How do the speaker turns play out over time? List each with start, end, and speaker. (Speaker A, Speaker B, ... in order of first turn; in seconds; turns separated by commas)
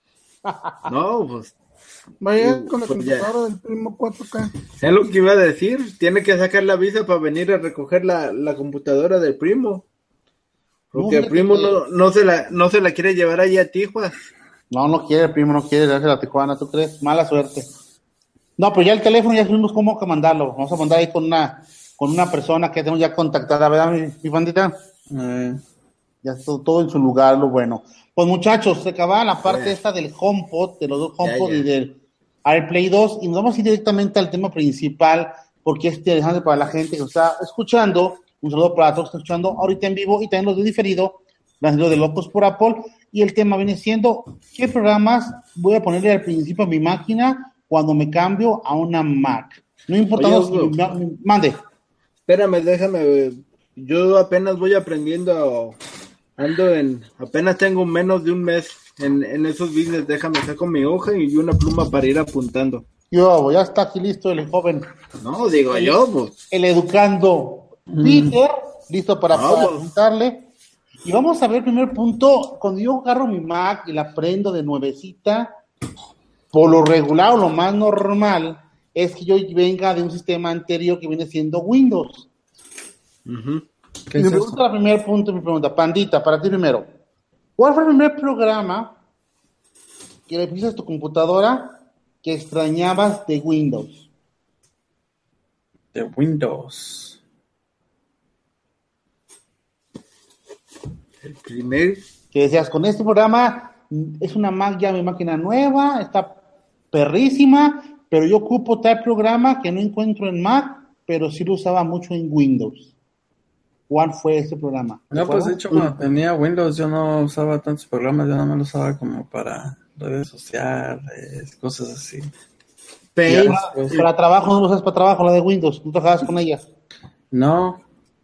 Speaker A: 0.4-0.9, Speaker B: 0.9-1.6, Speaker C: 2.2-4.5, Speaker B: 2.4-3.3, Speaker B: 4.8-9.9, Speaker B: 10.9-14.2, Speaker A: 10.9-11.8, Speaker A: 14.7-17.7, Speaker A: 18.6-24.7, Speaker D: 25.1-25.6, Speaker A: 26.2-51.6, Speaker B: 29.4-29.8, Speaker B: 31.2-31.7, Speaker B: 50.1-50.8, Speaker B: 52.3-55.8, Speaker B: 56.4-62.9, Speaker A: 63.1-64.9, Speaker B: 65.2-66.3, Speaker A: 65.7-66.0, Speaker A: 66.5-70.5, Speaker D: 67.9-68.4, Speaker B: 69.3-69.8, Speaker A: 71.0-75.5, Speaker A: 76.5-82.3, Speaker B: 83.2-83.7, Speaker D: 84.1-84.6, Speaker A: 84.2-86.8, Speaker A: 87.6-89.0, Speaker A: 90.3-94.1, Speaker D: 95.9-97.2, Speaker B: 101.2-102.0, Speaker A: 102.3-106.4, Speaker A: 106.9-112.9, Speaker A: 113.9-115.9, Speaker D: 115.1-122.3, Speaker B: 123.2-124.1, Speaker D: 123.3-124.0, Speaker A: 123.3-126.7, Speaker D: 127.3-127.8